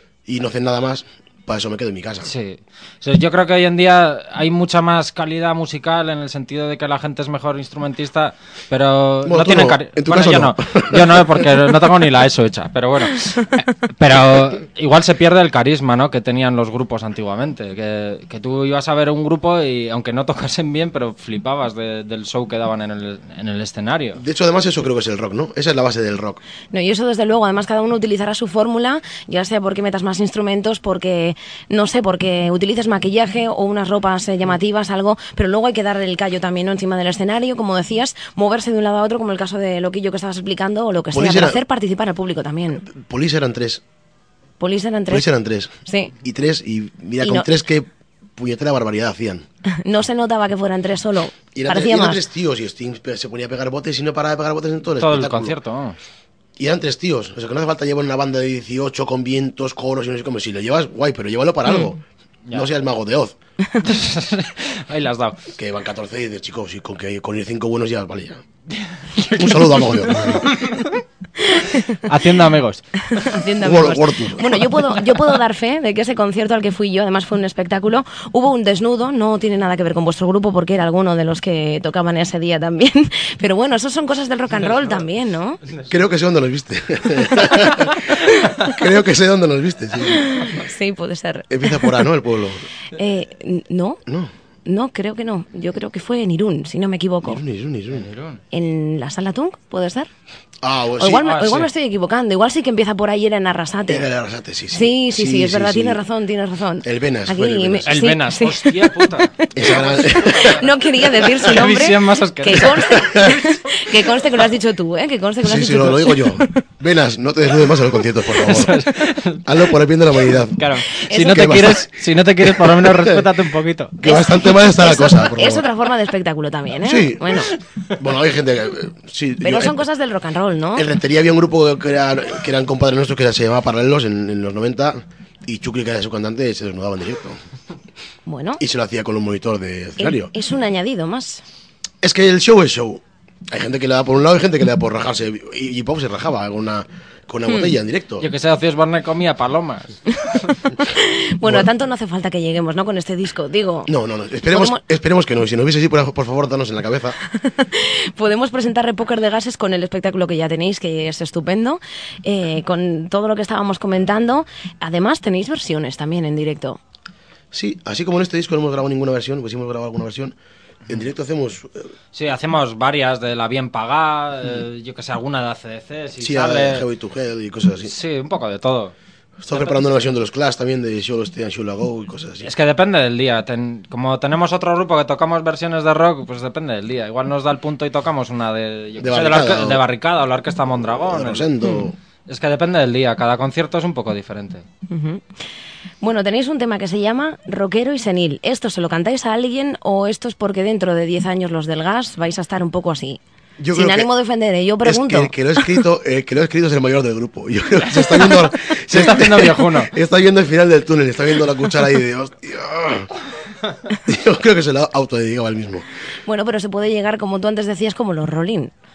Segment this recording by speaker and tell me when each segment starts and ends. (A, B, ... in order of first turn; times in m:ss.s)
0:00.3-0:02.3 A
0:02.2-0:24.2 B
0:09.2-0:11.5 A
0:24.2-0:26.4 A
0:26.7-0:42.8 C
0:41.1-0:41.6 A
0:42.8-0:43.8 A
0:44.6-0:45.3 C
0:45.1-0:49.5 A
0:45.9-0:46.1 C
0:47.2-0:47.5 C
0:49.8-0:52.2 C
0:51.5-0:55.6 A
0:55.0-0:56.0 B
0:56.6-1:02.0 A
1:02.5-1:03.4 A
1:03.8-1:05.4 B
1:05.6-1:08.4 A
1:08.8-1:11.0 B
1:09.3-1:10.6 A
1:11.6-1:13.3 B
1:13.1-1:25.6 C
1:13.6-1:14.7 A
1:25.9-1:30.6 A
1:30.1-1:32.0 C
1:31.5-1:32.7 A
1:32.9-1:34.0 C
1:34.7-1:37.4 C
1:37.2-1:38.1 A
1:37.9-1:38.4 B
1:38.5-1:40.1 C
1:40.6-1:41.3 A
1:41.0-1:44.1 C
1:41.2-1:41.7 B
1:43.9-1:46.0 A
1:44.7-1:49.7 C
1:46.8-1:48.0 A
1:47.9-1:50.7 B
1:49.6-1:50.6 A
1:50.3-1:56.5 C
1:51.3-1:53.0 B
1:52.8-1:53.4 A
1:55.4-1:58.9 A
1:58.3-1:59.6 B
1:59.4-2:01.9 A
2:00.6-2:04.0 B
2:01.1-2:01.4 C
2:02.4-2:03.3 A
2:04.0-2:05.6 A
2:04.0-2:07.5 C
2:06.8-2:09.8 A
2:09.4-2:10.9 C
2:10.8-2:17.4 A
2:18.3-2:18.6 C
2:18.6-2:20.3 A
2:20.0-2:21.4 C
2:22.0-2:28.3 A
2:28.2-2:30.6 B
2:30.9-2:33.9 C
2:33.9-2:37.2 A
2:34.5-2:34.8 C
2:37.4-2:46.8 C
2:47.5-2:50.4 A
2:50.9-2:51.9 A
2:52.1-2:56.8 B
2:56.2-2:57.9 A
2:57.8-2:58.9 B
2:59.4-3:02.5 A
3:02.4-3:11.5 B
3:09.0-3:09.8 A
3:11.0-3:12.0 A
3:12.3-3:14.6 B
3:14.9-3:15.2 C
3:16.0-3:23.2 C
3:23.6-3:24.1 A
3:23.7-3:25.3 C
3:24.8-3:33.1 A
3:28.9-3:29.9 B
3:34.0-3:35.9 A
3:36.3-3:38.7 C